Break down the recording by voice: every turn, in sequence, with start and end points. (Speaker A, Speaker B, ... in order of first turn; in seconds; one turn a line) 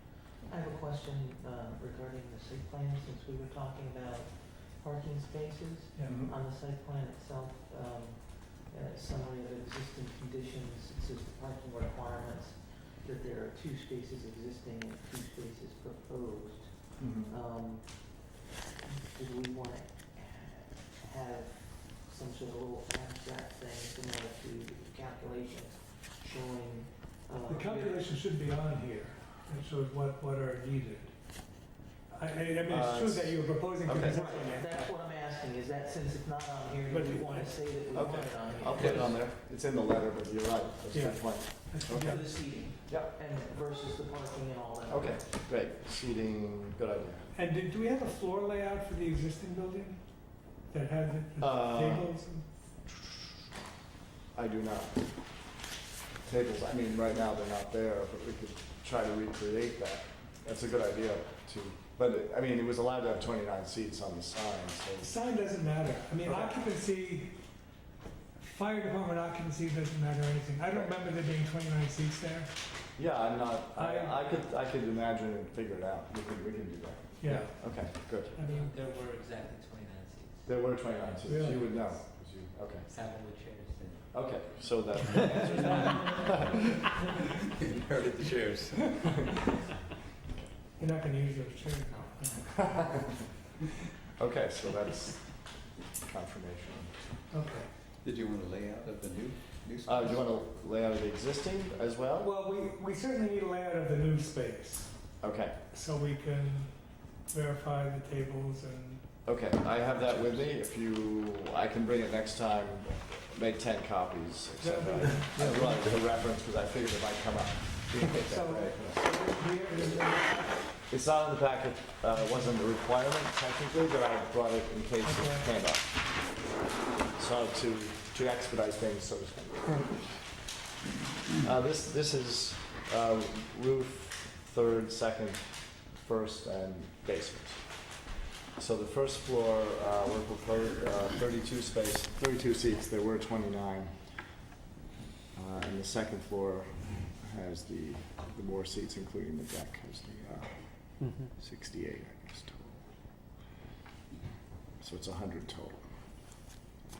Speaker A: 0.5-28.1
Speaker B: 5.9-6.2
Speaker C: 6.0-6.3
Speaker C: 17.0-17.3
Speaker B: 27.5-34.9
Speaker C: 32.7-34.2
Speaker A: 34.0-39.2
Speaker B: 36.9-39.1
Speaker C: 37.9-43.1
Speaker D: 38.7-39.1
Speaker B: 40.9-42.2
Speaker A: 41.9-45.4
Speaker C: 44.9-47.3
Speaker B: 47.3-52.5
Speaker C: 51.4-52.2
Speaker C: 54.3-55.5
Speaker C: 56.2-65.2
Speaker B: 65.0-67.7
Speaker C: 66.2-66.6
Speaker B: 68.3-72.6
Speaker C: 70.7-71.3
Speaker C: 72.9-78.3
Speaker B: 73.8-74.2
Speaker B: 77.2-78.8
Speaker E: 78.6-80.4
Speaker C: 80.4-82.9
Speaker B: 81.2-81.7
Speaker E: 82.9-84.0
Speaker C: 84.1-86.6
Speaker D: 85.2-86.8
Speaker D: 87.4-89.3
Speaker B: 90.8-93.0
Speaker C: 92.7-93.2
Speaker C: 94.1-97.0
Speaker B: 97.3-97.7
Speaker D: 98.0-100.3
Speaker C: 99.8-102.3
Speaker B: 102.2-109.1
Speaker C: 105.2-105.6
Speaker C: 109.2-119.2
Speaker B: 114.6-115.6
Speaker D: 115.3-116.0
Speaker B: 118.1-120.9
Speaker C: 120.9-126.4
Speaker B: 122.2-122.5
Speaker B: 125.0-125.5
Speaker C: 127.1-130.3
Speaker C: 131.4-144.4
Speaker C: 145.3-152.9
Speaker C: 154.8-155.9